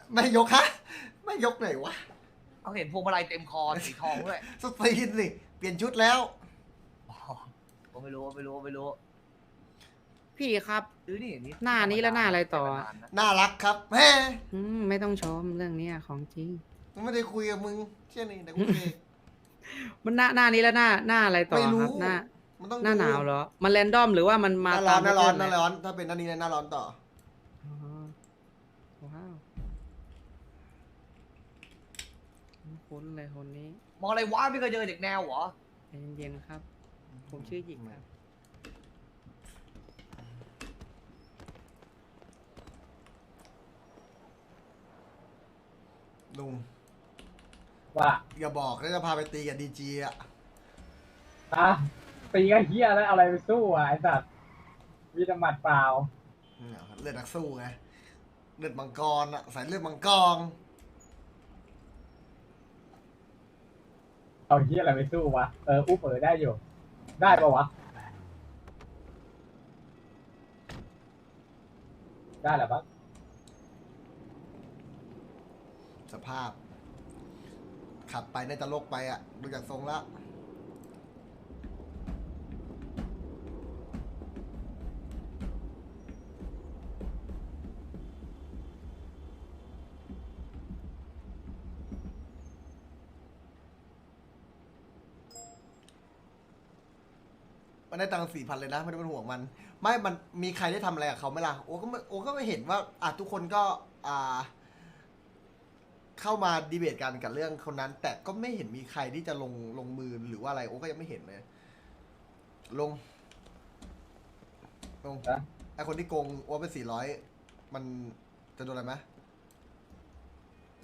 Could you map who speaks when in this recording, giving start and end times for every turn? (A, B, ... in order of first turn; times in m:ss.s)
0:00.1-0:02.0 A
0:02.6-0:04.4 B
0:03.7-0:06.3 A
0:07.1-0:09.0 B
0:10.4-0:10.9 C
0:11.1-0:13.1 B
0:11.7-0:12.6 C
0:13.1-0:14.4 A
0:14.5-0:16.6 C
0:16.9-0:19.0 A
0:19.7-0:22.2 C
0:21.5-0:23.3 A
0:22.8-0:25.5 C
0:24.7-0:27.0 A
0:27.6-0:28.1 C
0:29.0-0:29.4 C
0:32.6-0:33.8 C
0:34.0-0:35.5 B
0:35.9-0:36.6 C
0:37.1-0:38.0 A
0:37.3-0:37.8 C
0:46.3-0:46.6 A
0:47.9-0:48.2 D
0:48.3-0:50.2 A
0:51.5-0:54.2 D
0:55.1-0:56.1 D
0:56.6-0:57.8 A
0:58.6-1:00.6 A
1:04.5-1:06.6 D
1:07.2-1:07.7 D
1:12.4-1:12.8 D
1:16.1-1:16.6 A
1:18.1-1:20.1 A
1:37.9-1:44.5 A
1:46.2-1:51.4 A
1:52.7-1:53.0 A
1:55.0-1:59.0 A